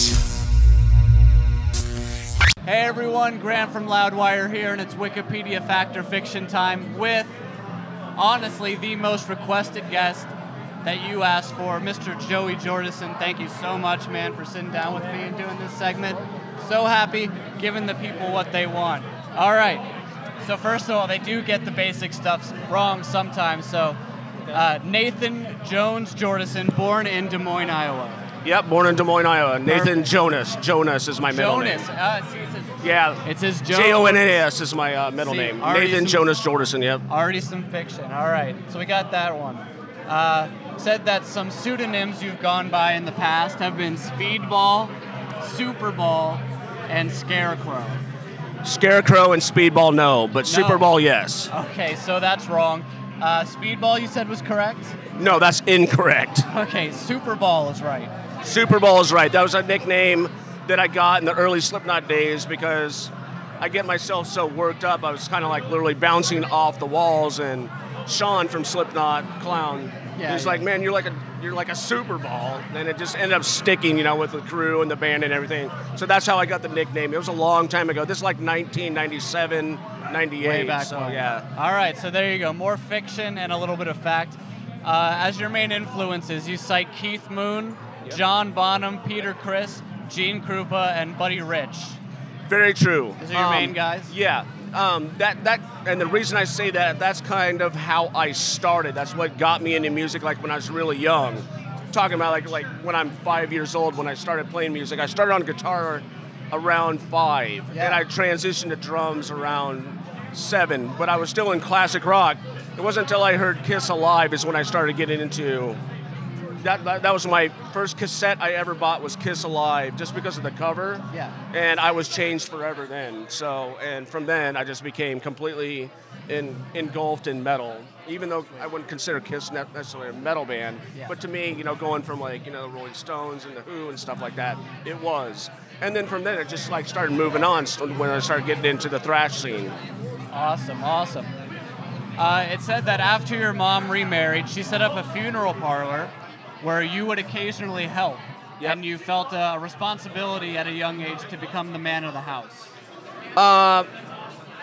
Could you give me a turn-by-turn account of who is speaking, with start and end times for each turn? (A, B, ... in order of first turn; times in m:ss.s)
0:02.6-0:07.3 A
0:08.2-0:19.8 A
0:20.4-0:24.0 A
0:24.5-0:28.2 A
0:28.4-0:31.9 B
0:29.6-0:30.0 A
0:31.3-0:34.4 A
0:32.8-0:37.0 B
0:35.2-0:36.2 A
0:37.1-0:48.0 A
0:48.6-0:51.5 B
0:50.4-0:50.9 A
0:51.5-0:55.0 A
0:55.1-0:56.5 B
0:56.5-0:58.1 A
0:58.4-1:21.4 B
1:10.2-1:10.6 A
1:20.4-1:32.0 A
1:32.5-1:55.8 B
1:33.2-1:34.1 A
1:47.7-1:48.0 A
1:56.6-2:19.8 B
2:01.1-2:01.4 A
2:20.3-2:21.3 A
2:22.2-2:32.7 A
2:33.4-2:33.9 B